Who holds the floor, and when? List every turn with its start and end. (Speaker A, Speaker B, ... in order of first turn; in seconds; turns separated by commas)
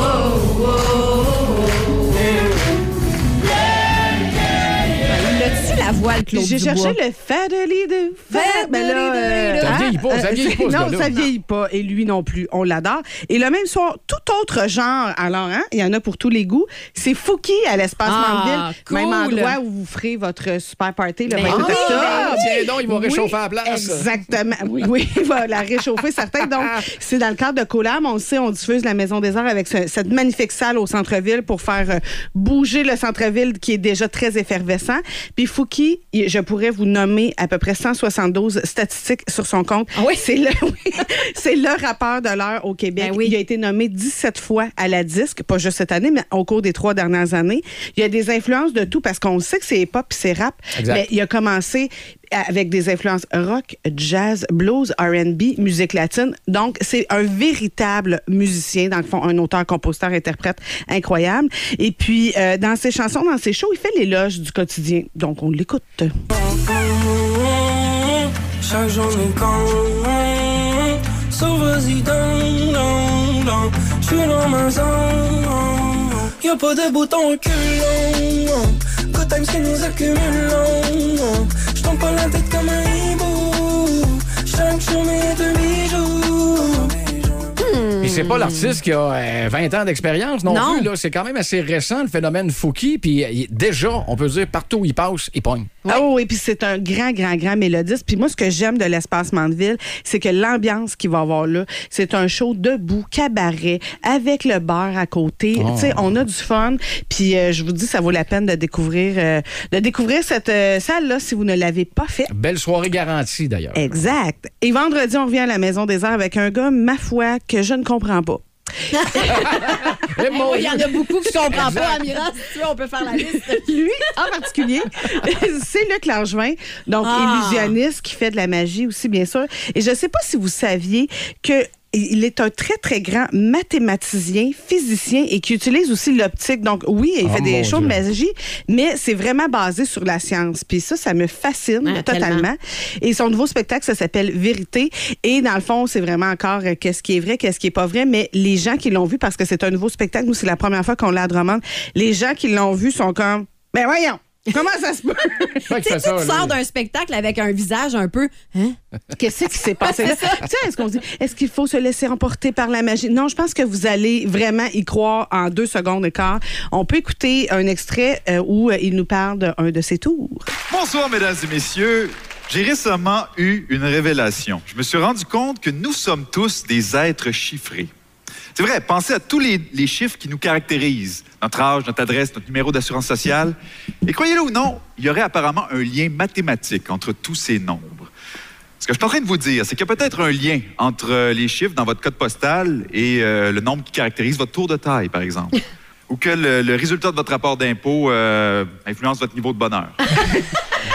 Speaker A: 5.1-7.0, Speaker B: 6.3-66.1, Speaker A: 8.3-9.8, Speaker C: 9.6-11.3, Speaker A: 18.1-19.6, Speaker A: 21.3-22.5, Speaker C: 21.4-24.1, Speaker A: 39.9-40.3, Speaker A: 43.0-43.4, Speaker C: 50.8-51.1, Speaker D: 66.3-87.5, Speaker A: 87.6-88.8, Speaker C: 88.0-95.7, Speaker A: 90.5-90.9, Speaker B: 95.9-112.3, Speaker C: 105.5-106.1, Speaker C: 112.3-114.0, Speaker B: 113.8-118.5, Speaker A: 118.9-123.7, Speaker B: 119.0-119.6, Speaker C: 119.3-122.1, Speaker B: 123.5-155.6, Speaker A: 127.0-127.8, Speaker C: 137.2-138.1, Speaker A: 141.8-142.5, Speaker C: 155.7-156.6, Speaker A: 155.7-158.8, Speaker B: 159.2-170.5, Speaker A: 159.8-160.5, Speaker E: 170.7-177.9, Speaker E: 178.5-188.1, Speaker E: 188.8-200.0